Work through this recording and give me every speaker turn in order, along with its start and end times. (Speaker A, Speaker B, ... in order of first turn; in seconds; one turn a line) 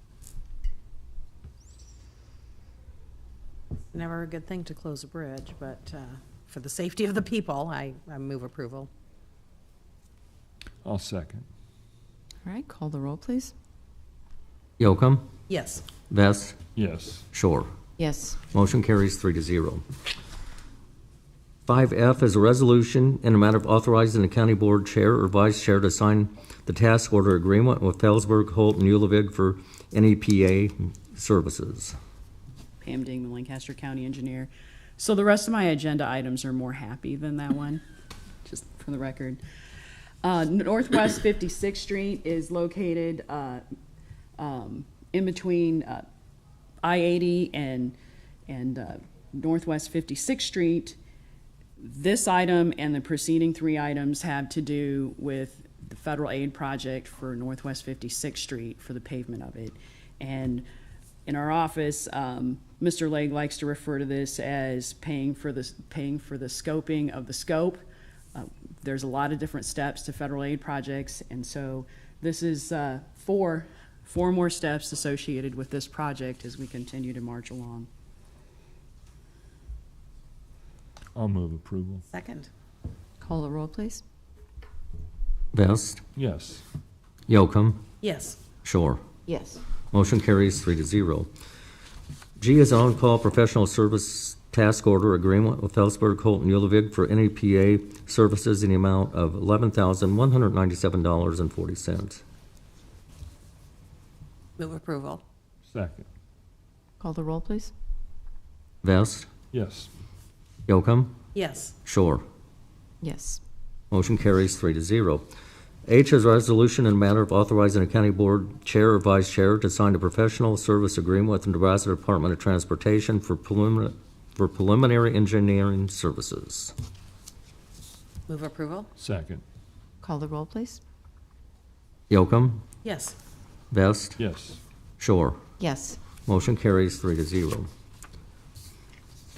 Speaker A: 3.9-8.9
Speaker B: 10.8-11.5
Speaker C: 12.5-13.5
Speaker D: 14.8-15.3
Speaker A: 15.5-15.9
Speaker D: 16.1-16.6
Speaker B: 16.8-17.3
Speaker D: 17.3-17.7
Speaker C: 18.0-18.4
Speaker D: 18.5-19.8
Speaker D: 21.7-31.9
Speaker E: 32.8-37.8
Speaker E: 38.5-39.4
Speaker E: 40.2-43.6
Speaker E: 44.4-46.0
Speaker E: 46.8-48.0
Speaker E: 48.5-51.0
Speaker E: 51.8-60.6
Speaker E: 61.3-77.9
Speaker B: 81.2-82.1
Speaker A: 82.1-82.5
Speaker C: 83.3-84.0
Speaker D: 85.5-86.0
Speaker B: 86.2-86.6
Speaker D: 87.3-87.8
Speaker A: 88.0-88.4
Speaker D: 88.6-89.0
Speaker C: 89.3-89.6
Speaker D: 89.9-91.3
Speaker D: 92.4-102.2
Speaker A: 104.6-105.2
Speaker B: 105.7-106.1
Speaker C: 107.0-107.7
Speaker D: 108.8-109.3
Speaker B: 109.5-109.9
Speaker D: 110.7-111.2
Speaker A: 111.3-111.7
Speaker D: 111.8-112.2
Speaker C: 113.0-113.4
Speaker D: 113.9-115.2
Speaker D: 115.9-126.7
Speaker A: 128.3-128.9
Speaker B: 129.0-129.4
Speaker C: 130.0-130.8
Speaker D: 132.1-132.6
Speaker A: 132.8-133.2
Speaker D: 133.7-134.2
Speaker B: 134.2-134.6
Speaker D: 135.0-135.4
Speaker C: 135.6-136.0
Speaker D: 136.2-137.7